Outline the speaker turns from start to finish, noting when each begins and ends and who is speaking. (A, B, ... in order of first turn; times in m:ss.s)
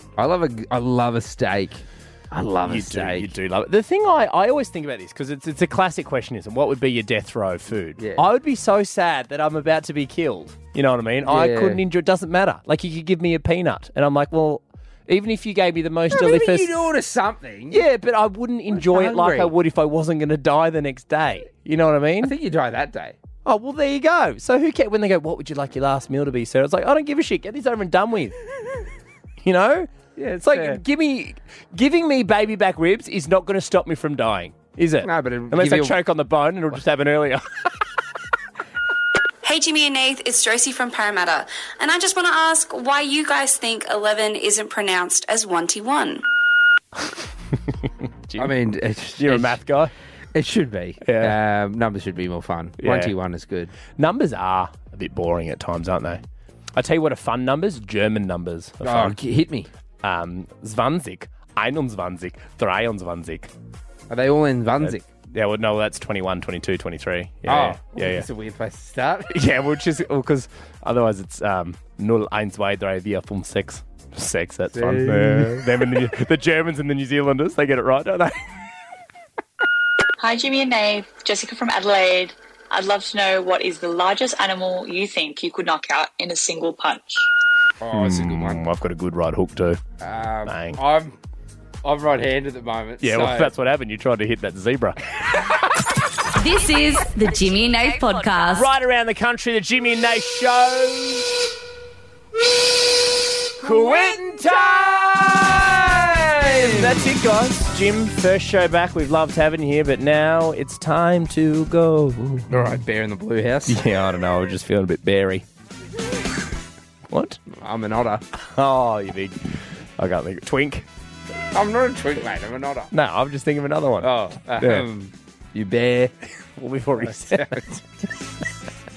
0:00.2-0:03.3 A
0:02.6-0:16.7 B
0:08.0-0:08.2 A
0:11.2-0:11.8 A
0:16.1-0:17.8 A
0:17.7-0:22.3 B
0:18.7-0:19.5 A
0:22.2-0:23.2 A
0:23.4-0:28.4 B
0:29.4-0:37.4 B
0:30.2-0:30.8 A
0:35.0-0:36.0 A
0:39.4-0:46.2 C
0:48.2-0:48.6 B
0:48.4-0:49.6 A
0:49.2-0:49.9 B
0:50.3-0:53.7 A
0:51.0-0:51.3 B
0:52.8-0:53.1 B
0:54.0-0:56.2 B
0:56.8-0:59.2 B
0:58.8-0:59.7 A
1:00.0-1:03.5 B
1:04.1-1:05.0 A
1:04.8-1:08.3 B
1:07.5-1:09.3 A
1:09.3-1:18.5 B
1:14.7-1:15.9 A
1:20.2-1:27.3 D
1:27.8-1:28.6 A
1:27.9-1:29.8 B
1:30.0-1:31.2 A
1:30.4-1:30.8 B
1:31.8-1:33.5 A
1:33.0-1:35.0 B
1:36.4-1:38.7 E
1:38.5-1:41.3 B
1:43.6-1:52.5 B
1:43.6-1:47.1 A
1:52.5-1:53.8 A
1:53.7-1:55.4 B
1:57.1-1:57.4 B
1:57.5-1:58.2 A
1:58.4-1:59.4 B
2:00.0-2:00.8 B
2:01.5-2:02.9 A
2:02.9-2:04.8 B
2:04.0-2:06.1 A
2:06.6-2:07.5 B
2:07.0-2:07.8 A